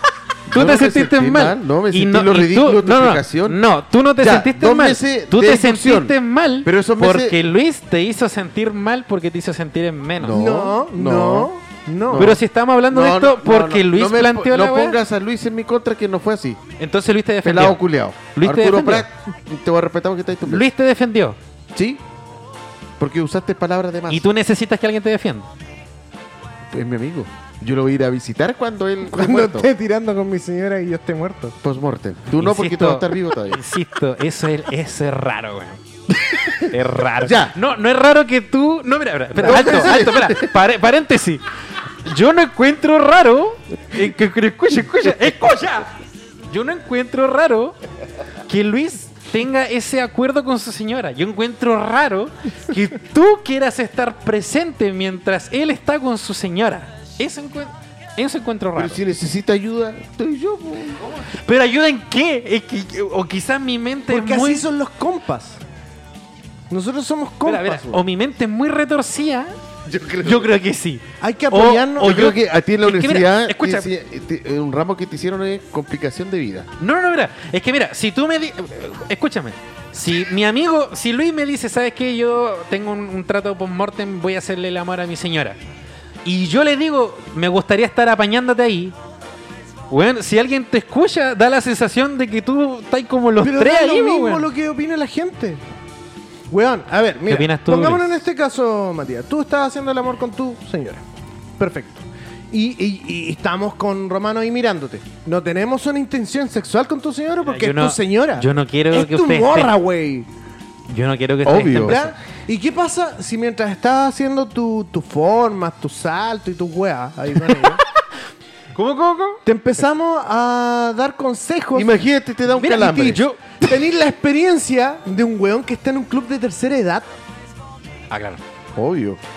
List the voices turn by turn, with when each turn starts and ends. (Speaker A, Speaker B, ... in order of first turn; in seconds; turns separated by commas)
Speaker A: 0.5-3.6, Speaker B: 0.5-10.4, Speaker A: 4.2-7.4, Speaker A: 10.2-11.5, Speaker C: 10.3-12.4, Speaker A: 12.1-16.6, Speaker B: 12.1-15.0, Speaker B: 16.8-17.8, Speaker A: 17.4-20.7, Speaker B: 18.4-19.1, Speaker B: 20.5-21.4, Speaker A: 21.8-22.0, Speaker A: 23.0-24.2, Speaker B: 24.1-25.5, Speaker A: 26.7-29.7, Speaker C: 29.1-31.6, Speaker A: 31.6-33.6, Speaker B: 32.4-35.8, Speaker A: 36.3-37.6, Speaker B: 36.5-41.4, Speaker A: 39.4-40.5, Speaker B: 42.0-45.9, Speaker B: 46.5-47.8, Speaker B: 48.5-59.0, Speaker A: 58.8-61.0, Speaker B: 61.0-64.7, Speaker C: 64.1-65.6, Speaker C: 66.7-68.0, Speaker B: 67.5-69.6, Speaker A: 69.8-70.5, Speaker B: 70.2-73.9, Speaker C: 71.2-72.3, Speaker A: 71.5-76.7, Speaker B: 76.8-85.6, Speaker B: 86.2-89.0, Speaker B: 89.9-94.5, Speaker C: 93.4-95.6, Speaker C: 96.5-101.0, Speaker B: 97.3-98.1, Speaker C: 101.6-110.3, Speaker B: 107.4-109.8, Speaker B: 110.9-112.1, Speaker A: 111.5-112.0, Speaker C: 111.8-117.8, Speaker B: 117.5-117.8, Speaker B: 118.8-119.4, Speaker C: 119.5-122.0, Speaker A: 121.7-123.2, Speaker C: 122.5-127.1, Speaker B: 128.1-128.4, Speaker A: 128.8-129.2